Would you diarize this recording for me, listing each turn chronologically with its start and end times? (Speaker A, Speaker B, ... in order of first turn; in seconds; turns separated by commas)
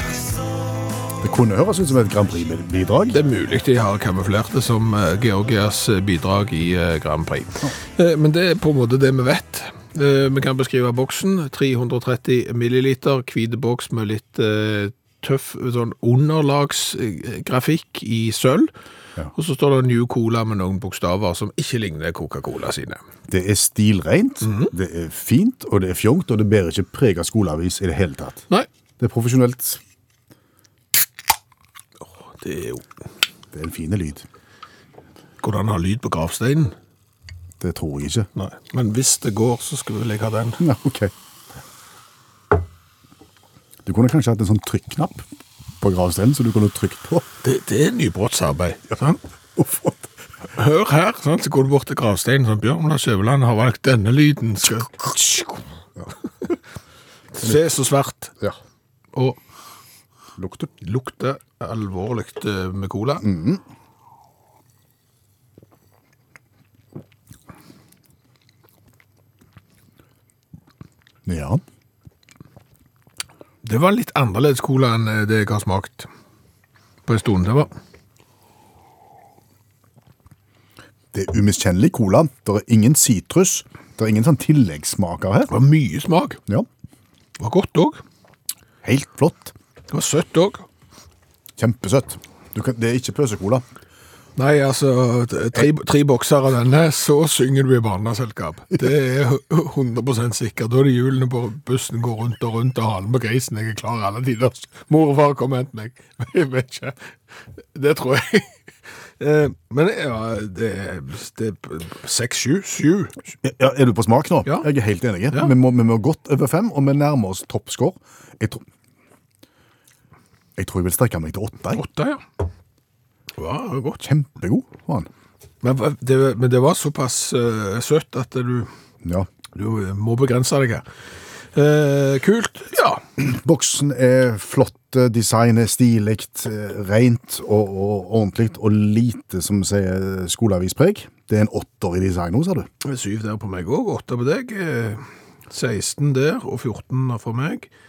Speaker A: 1.2-3.2, Speaker B: 3.1-18.7, Speaker B: 19.3-23.0, Speaker A: 23.3-28.4, Speaker B: 24.4-24.7, Speaker A: 29.0-29.8, Speaker B: 32.3-32.9, Speaker A: 33.5-34.3, Speaker B: 35.4-36.7, Speaker A: 37.6-38.3, Speaker B: 38.4-40.6, Speaker A: 40.6-41.1, Speaker A: 43.9-45.3, Speaker A: 45.8-47.3, Speaker B: 47.4-49.2, Speaker A: 49.6-50.1, Speaker B: 50.5-55.5, Speaker B: 57.4-58.4, Speaker B: 59.1-59.4, Speaker A: 60.4-60.7, Speaker B: 60.8-63.3, Speaker A: 63.2-63.6, Speaker A: 71.3-71.6, Speaker B: 73.6-76.1, Speaker B: 77.1-77.7, Speaker A: 81.1-85.5, Speaker B: 85.5-86.4, Speaker B: 87.4-88.0, Speaker A: 88.8-89.5, Speaker B: 89.9-90.7, Speaker A: 91.6-93.6, Speaker B: 94.4-107.1, Speaker B: 107.7-108.5, Speaker B: 109.2-113.2, Speaker A: 113.4-118.6, Speaker A: 120.6-121.8, Speaker B: 121.8-122.2, Speaker B: 123.4-124.0, Speaker A: 124.0-125.1, Speaker B: 125.6-128.7, Speaker B: 129.6-130.8, Speaker B: 131.5-133.0, Speaker A: 133.2-142.7, Speaker B: 142.8-147.7